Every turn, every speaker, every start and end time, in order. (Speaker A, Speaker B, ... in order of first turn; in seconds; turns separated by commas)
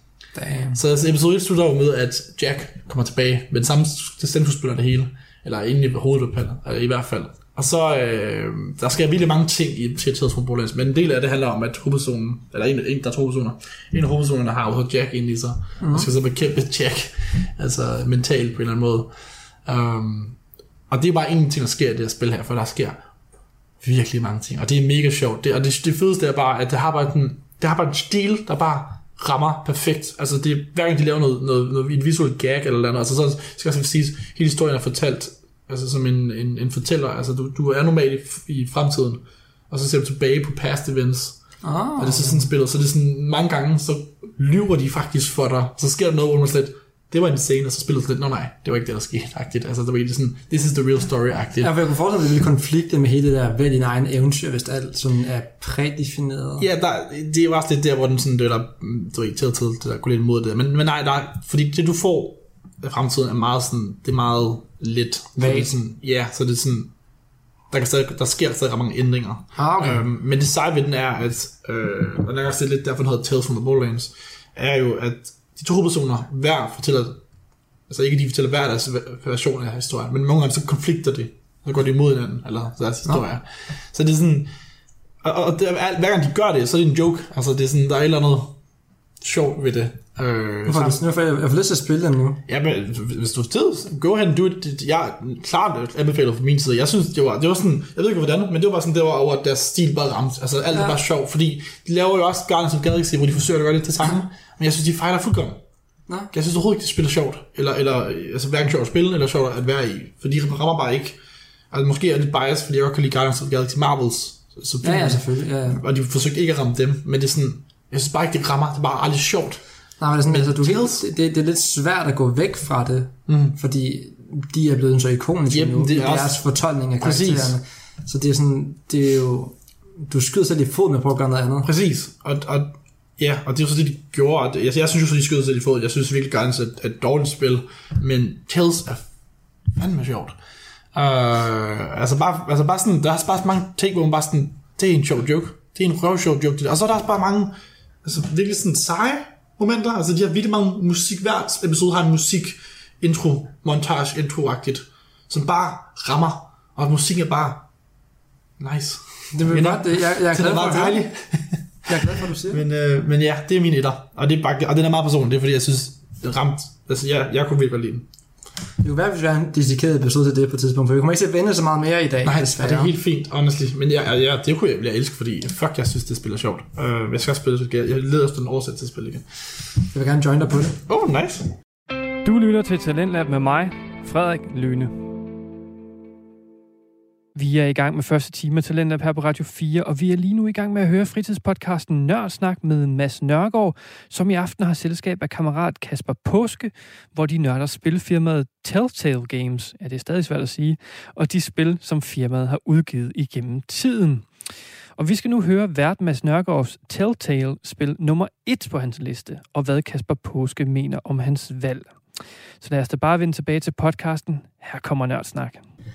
Speaker A: 0.3-0.8, Speaker B: 0.7-19.1, Speaker A: 15.8-16.1, Speaker B: 19.6-20.4, Speaker B: 20.9-23.0, Speaker B: 23.8-41.4, Speaker A: 41.6-42.5, Speaker B: 42.0-51.7, Speaker A: 51.6-56.7, Speaker B: 56.6-66.9, Speaker A: 65.4-65.7, Speaker B: 67.7-77.2, Speaker A: 69.5-70.0, Speaker B: 77.9-84.5, Speaker B: 85.2-88.5, Speaker B: 89.2-91.0, Speaker A: 90.7-92.4, Speaker B: 92.5-105.6, Speaker B: 106.3-111.2, Speaker B: 111.7-119.6, Speaker A: 114.8-115.8, Speaker A: 120.0-129.5, Speaker B: 120.3-121.0, Speaker B: 123.3-123.5, Speaker B: 125.5-126.4, Speaker B: 127.0-127.5, Speaker A: 130.1-131.7, Speaker B: 131.6-139.0, Speaker B: 139.8-140.4, Speaker B: 140.9-147.5, Speaker B: 148.0-157.7, Speaker B: 158.6-168.1, Speaker A: 159.3-161.1, Speaker A: 161.9-162.6, Speaker A: 168.8-172.9, Speaker B: 172.2-179.2, Speaker A: 179.9-180.8, Speaker B: 180.9-181.5, Speaker C: 182.2-185.0, Speaker C: 187.3-204.3, Speaker C: 205.0-211.9, Speaker C: 212.6-215.6